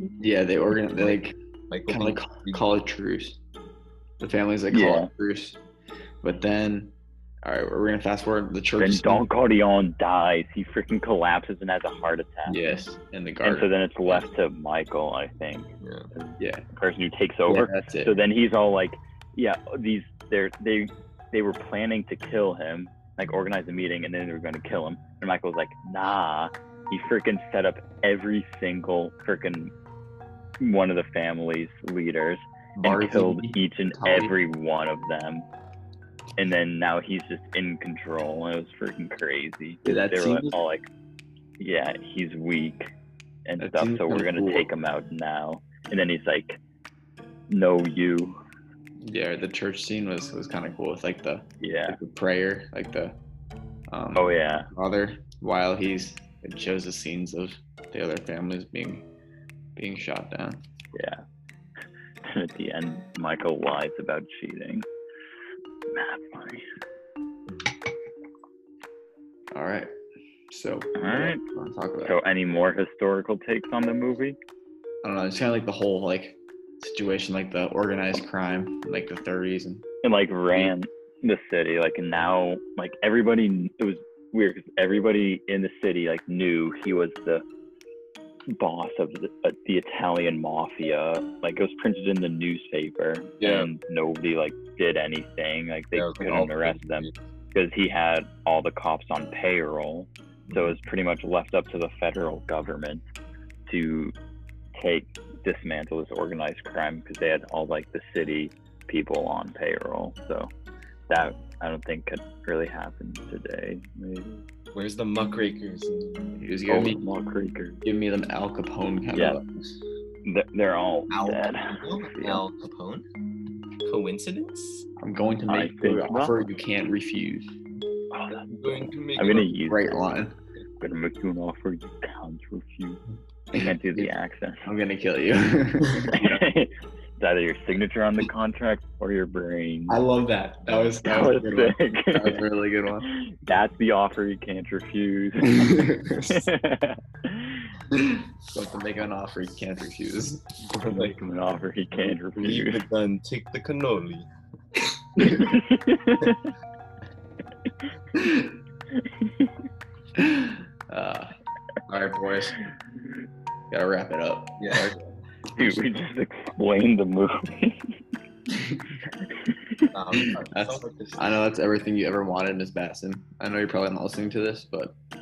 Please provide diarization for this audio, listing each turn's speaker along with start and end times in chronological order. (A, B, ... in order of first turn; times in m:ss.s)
0:00.2-0:03.4 A
0:00.9-0:02.7 B
0:04.2-0:05.6 A
0:04.7-0:05.1 C
0:06.2-0:09.3 A
0:08.8-0:12.8 C
0:12.4-0:14.3 A
0:13.4-0:29.7 C
0:15.8-0:16.1 B
0:16.4-0:16.6 A
0:17.4-0:18.2 A
0:30.6-0:35.5 C
0:32.8-0:34.3 A
0:36.4-0:40.9 C
0:39.8-0:40.6 A
0:41.6-0:42.9 C
0:43.5-0:46.6 C
0:43.6-0:44.7 A
0:47.5-0:48.4 C
0:49.0-0:53.2 A
0:51.6-0:52.0 C
0:53.9-0:59.1 A
0:54.1-0:54.7 C
0:59.8-1:00.6 A
1:00.9-1:01.2 C
1:02.2-1:04.9 C
1:05.9-1:06.6 C
1:09.5-1:09.9 A
1:10.5-1:12.2 A
1:11.0-1:11.4 C
1:12.0-1:14.4 C
1:15.0-1:19.8 A
1:20.0-1:27.4 C
1:28.5-1:43.0 C
1:33.4-1:33.7 B
1:35.9-1:37.1 B
1:40.5-1:40.8 B
1:43.7-1:44.1 C
1:44.8-1:50.5 C
1:51.1-1:54.4 C
1:54.7-1:56.4 B
1:56.4-1:57.0 A
1:56.7-1:57.8 C
1:57.8-1:59.8 A
1:59.1-1:59.4 C
2:00.2-2:02.4 C
2:01.1-2:03.0 B
2:03.8-2:04.8 B
2:05.0-2:07.5 A
2:05.5-2:06.4 C
2:08.1-2:10.0 C
2:08.5-2:09.6 B
2:09.6-2:10.3 A
2:10.8-2:13.0 C
2:13.5-2:14.1 A
2:13.6-2:14.7 C
2:14.6-2:16.4 A
2:16.1-2:20.0 C
2:19.9-2:23.1 A
2:21.0-2:22.4 C
2:23.0-2:27.7 C
2:25.4-2:26.4 A
2:27.9-2:30.4 A
2:30.7-2:31.2 B
2:30.9-2:32.8 C
2:31.9-2:34.3 B
2:35.2-2:36.5 C
2:39.2-2:39.5 C
2:40.2-2:41.3 A
2:41.9-2:42.6 A
2:43.7-2:45.6 A
2:44.6-2:44.9 B
2:45.6-2:47.9 C
2:49.4-2:49.9 C
2:49.9-2:51.4 B
2:50.1-2:54.9 A